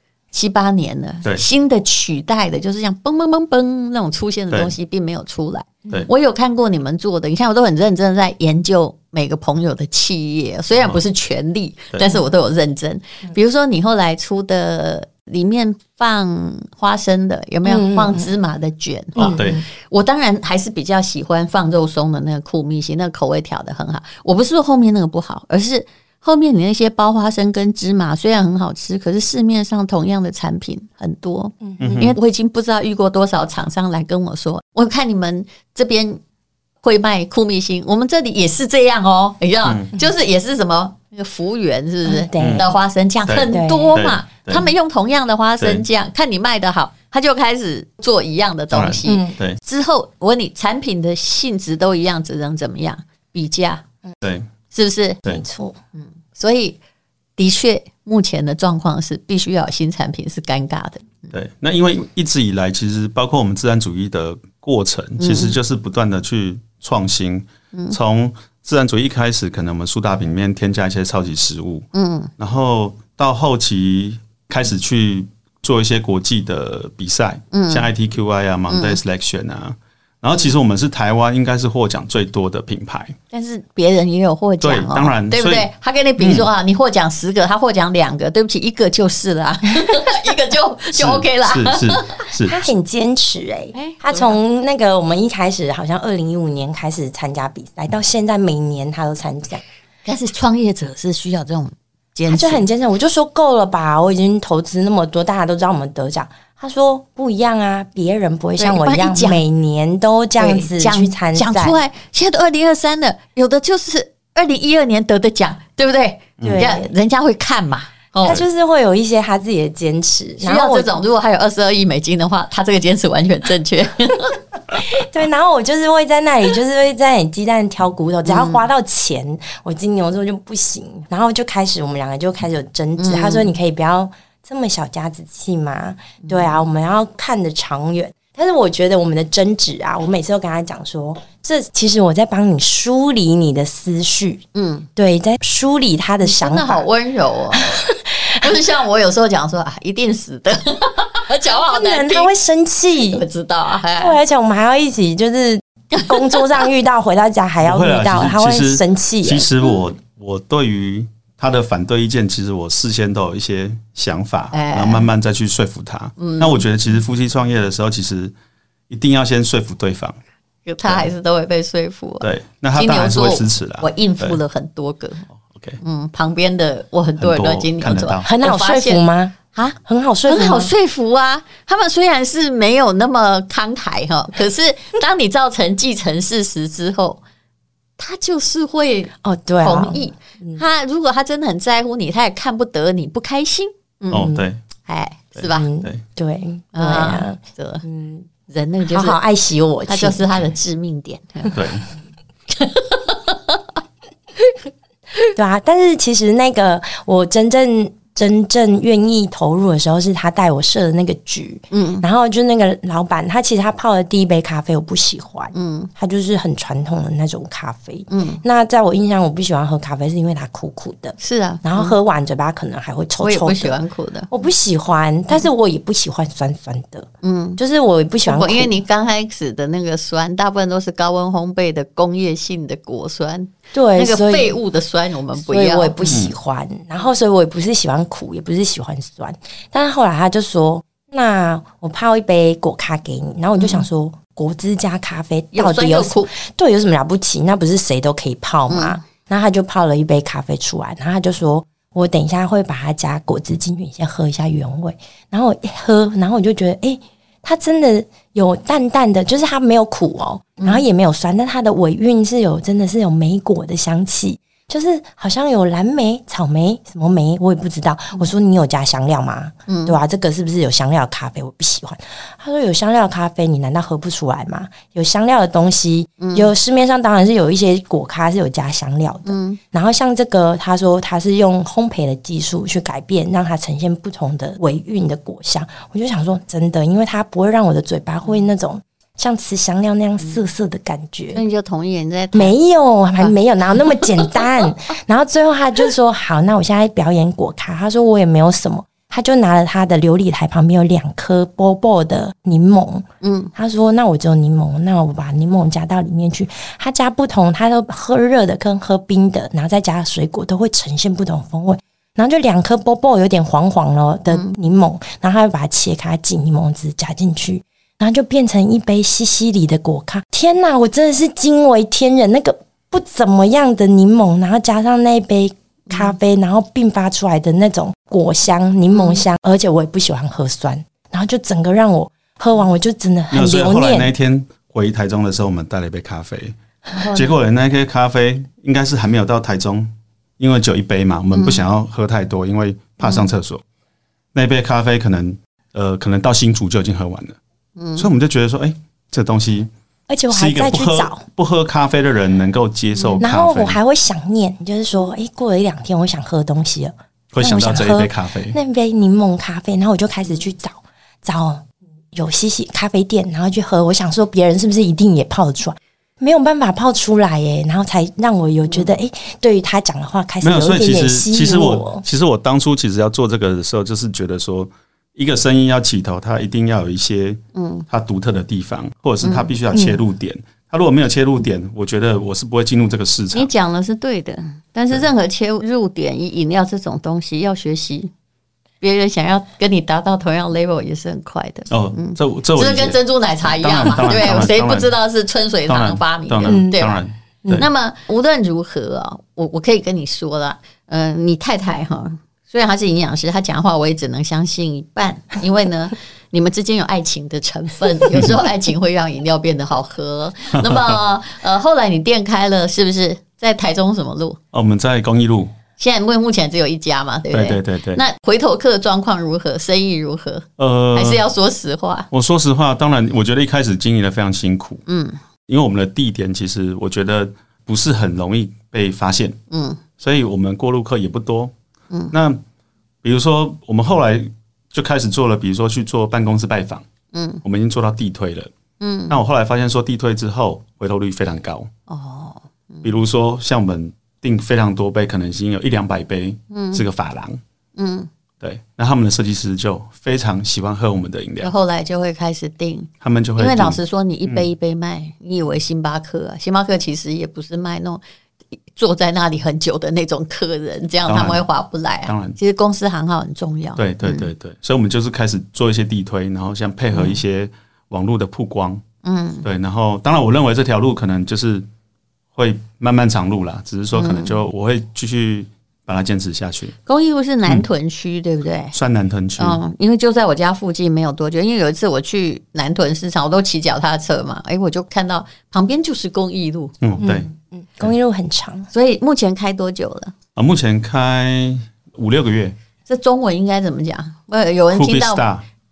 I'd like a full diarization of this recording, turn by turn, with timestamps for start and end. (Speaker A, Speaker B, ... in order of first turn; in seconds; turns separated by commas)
Speaker A: 0.3-36.2, Speaker B: 17.6-18.3, Speaker C: 19.2-19.6, Speaker B: 19.2-19.6, Speaker B: 31.6-32.1, Speaker C: 31.8-32.2, Speaker A: 36.8-53.8, Speaker C: 39.6-39.9, Speaker B: 42.0-42.7, Speaker C: 42.4-42.6, Speaker C: 43.3-44.7, Speaker B: 43.5-44.0, Speaker C: 48.7-49.6, Speaker B: 49.1-49.4, Speaker C: 54.2-54.5, Speaker A: 54.7-55.2, Speaker B: 55.3-55.8, Speaker A: 56.0-56.8, Speaker A: 57.4-61.3, Speaker C: 61.3-83.2, Speaker A: 65.2-65.6, Speaker A: 71.9-72.3, Speaker A: 77.5-77.9, Speaker A: 78.7-79.0, Speaker A: 83.3-92.2, Speaker C: 84.6-86.5, Speaker C: 90.9-92.6, Speaker B: 92.5-99.6, Speaker A: 93.8-94.4, Speaker A: 100.0-102.7, Speaker B: 102.3-111.8, Speaker A: 108.6-109.4, Speaker A: 110.4-118.4, Speaker C: 116.4-116.7, Speaker B: 116.4-116.9, Speaker B: 118.2-120.9, Speaker A: 120.4-124.4, Speaker B: 124.7-144.4, Speaker A: 128.3-128.7, Speaker A: 133.0-133.5, Speaker A: 136.2-136.6, Speaker A: 144.6-144.9, Speaker B: 145.0-146.9, Speaker A: 146.2-147.7, Speaker B: 147.6-148.5, Speaker A: 148.4-152.3, Speaker B: 151.5-153.2, Speaker A: 153.1-154.2, Speaker B: 154.0-159.5, Speaker A: 155.9-156.6, Speaker C: 157.6-168.3, Speaker A: 164.5-165.1, Speaker A: 166.2-166.6, Speaker C: 168.9-170.2, Speaker A: 170.7-175.3, Speaker C: 172.2-174.4, Speaker C: 175.5-175.8, Speaker A: 175.8-187.2, Speaker C: 177.2-178.3, Speaker B: 178.2-180.7, Speaker A: 188.0-194.3, Speaker B: 189.2-190.6, Speaker C: 194.1-194.6, Speaker A: 194.8-195.7, Speaker B: 195.4-198.3, Speaker A: 196.7-197.8, Speaker A: 198.5-199.2, Speaker B: 198.8-200.3, Speaker A: 199.9-201.6, Speaker C: 201.5-201.8, Speaker A: 202.5-203.6, Speaker B: 205.3-223.8, Speaker A: 211.7-212.1, Speaker A: 215.5-215.9, Speaker A: 218.1-218.4, Speaker A: 221.2-221.9, Speaker A: 223.2-224.3, Speaker B: 224.3-228.7, Speaker A: 227.2-227.6, Speaker A: 228.3-236.2, Speaker B: 233.7-234.6, Speaker B: 235.4-291.4, Speaker C: 236.1-236.3, Speaker A: 243.6-243.8, Speaker A: 245.5-246.3, Speaker A: 248.7-249.0, Speaker A: 269.7-270.0, Speaker A: 276.2-276.5, Speaker A: 279.3-279.6, Speaker A: 291.3-292.6, Speaker B: 292.3-334.1, Speaker A: 293.9-294.4, Speaker A: 303.2-303.5, Speaker A: 314.3-314.6, Speaker A: 325.9-326.1, Speaker A: 328.9-329.2, Speaker C: 333.3-336.6, Speaker A: 336.9-337.3, Speaker C: 337.1-343.6, Speaker A: 341.3-341.6, Speaker C: 344.3-347.4, Speaker A: 347.8-348.1, Speaker C: 348.0-349.7, Speaker B: 350.1-351.2, Speaker C: 350.3-353.8, Speaker A: 353.0-353.2, Speaker B: 353.2-372.0, Speaker C: 357.3-358.6, Speaker C: 370.4-383.5, Speaker A: 377.6-377.9, Speaker A: 379.2-379.5, Speaker A: 383.3-388.1, Speaker A: 388.8-396.9, Speaker C: 391.7-393.0, Speaker C: 393.5-394.9, Speaker C: 395.7-397.7, Speaker B: 396.4-396.8, Speaker A: 397.6-414.4, Speaker C: 410.6-411.0, Speaker C: 414.5-415.5, Speaker A: 415.8-422.1, Speaker C: 417.3-418.0, Speaker C: 420.6-421.2, Speaker C: 422.1-424.8, Speaker A: 424.9-425.2, Speaker C: 425.5-429.4, Speaker A: 429.5-429.8, Speaker C: 430.0-431.5, Speaker C: 432.1-432.4, Speaker C: 433.0-436.9, Speaker A: 437.1-437.4, Speaker C: 437.4-438.5, Speaker A: 438.8-439.2, Speaker C: 439.1-441.7, Speaker A: 441.9-442.9, Speaker C: 442.8-447.4, Speaker A: 446.5-446.8, Speaker A: 447.8-448.1, Speaker C: 448.4-451.5, Speaker A: 451.4-458.0, Speaker C: 453.0-454.5, Speaker A: 458.7-464.3, Speaker C: 461.1-461.4, Speaker C: 462.1-462.4, Speaker C: 463.8-468.8, Speaker A: 466.9-467.2, Speaker A: 469.0-469.4, Speaker C: 469.4-471.7, Speaker C: 472.4-476.8, Speaker A: 473.9-474.4, Speaker A: 476.9-478.7, Speaker C: 478.7-479.6, Speaker A: 479.4-486.7, Speaker C: 486.8-487.3, Speaker B: 487.0-488.7, Speaker A: 488.7-490.1, Speaker C: 490.4-492.6, Speaker A: 492.9-495.2, Speaker C: 494.7-495.5